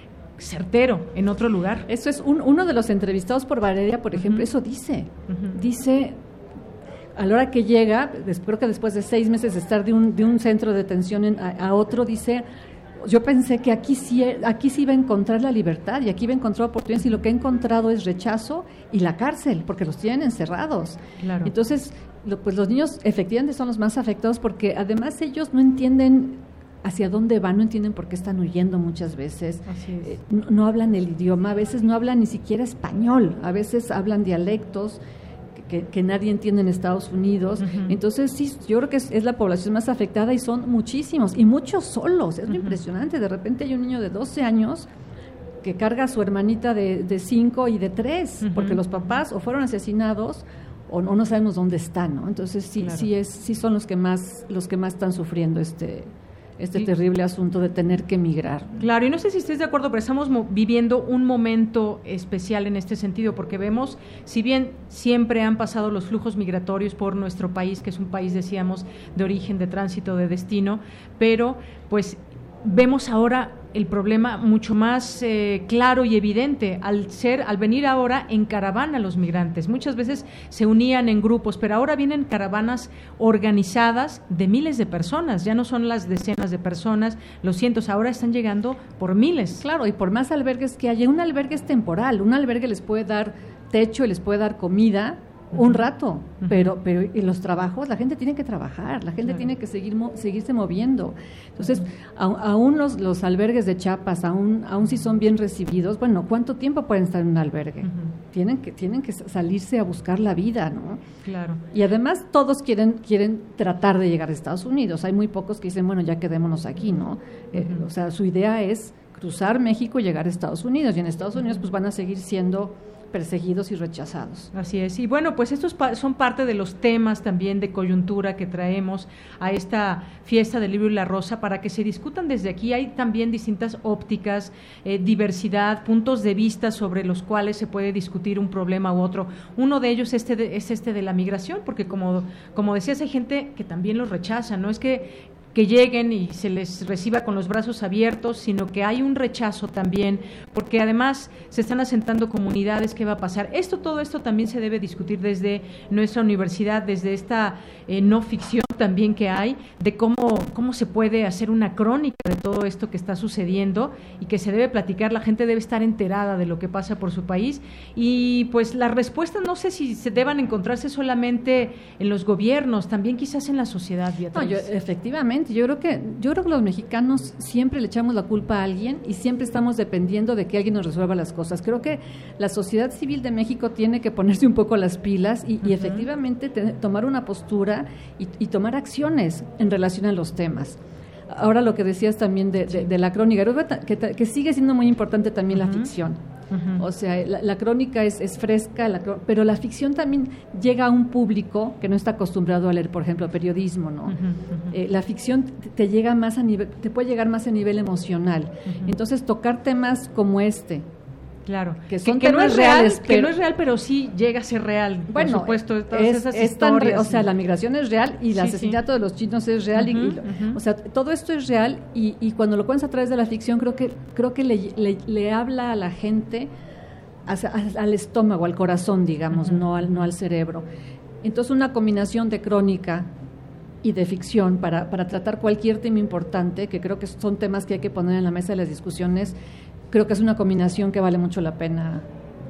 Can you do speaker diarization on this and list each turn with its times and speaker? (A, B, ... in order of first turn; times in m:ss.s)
0:00.4-0:01.9 A
0:01.9-0:06.2 B
0:04.2-0:04.5 A
0:05.3-0:05.6 A
0:07.2-0:12.4 B
0:13.0-0:35.0 B
0:21.2-0:21.5 A
0:29.7-0:30.1 A
0:35.6-0:44.9 B
0:37.6-0:38.0 A
0:42.5-0:42.8 A
0:45.6-0:58.8 B
0:48.4-0:49.1 A
0:52.8-0:53.1 A
0:58.8-1:29.6 A
1:29.6-1:51.0 B
1:35.5-1:35.8 A
1:36.4-1:36.8 A
1:39.2-1:39.5 A
1:41.6-1:41.9 A
1:47.8-1:48.1 A
1:51.2-1:51.6 A
1:51.7-2:04.5 B
1:57.6-1:57.9 A
2:01.4-2:01.6 A
2:04.5-2:54.7 A
2:54.3-3:10.8 B
3:05.6-3:06.1 A
3:11.3-3:16.2 B
3:15.5-3:15.9 A
3:16.5-3:16.8 A
3:16.8-3:24.2 B
3:24.1-3:24.7 A
3:24.7-3:30.8 B
3:28.7-3:29.0 A
3:31.5-3:37.3 A
3:31.9-3:33.3 B
3:35.1-3:46.5 B
3:38.3-3:38.8 A
3:39.7-3:40.6 A
3:47.3-3:50.7 B
3:49.3-3:49.7 A
3:51.2-3:53.1 B
3:53.8-3:59.4 B
3:59.9-4:02.0 B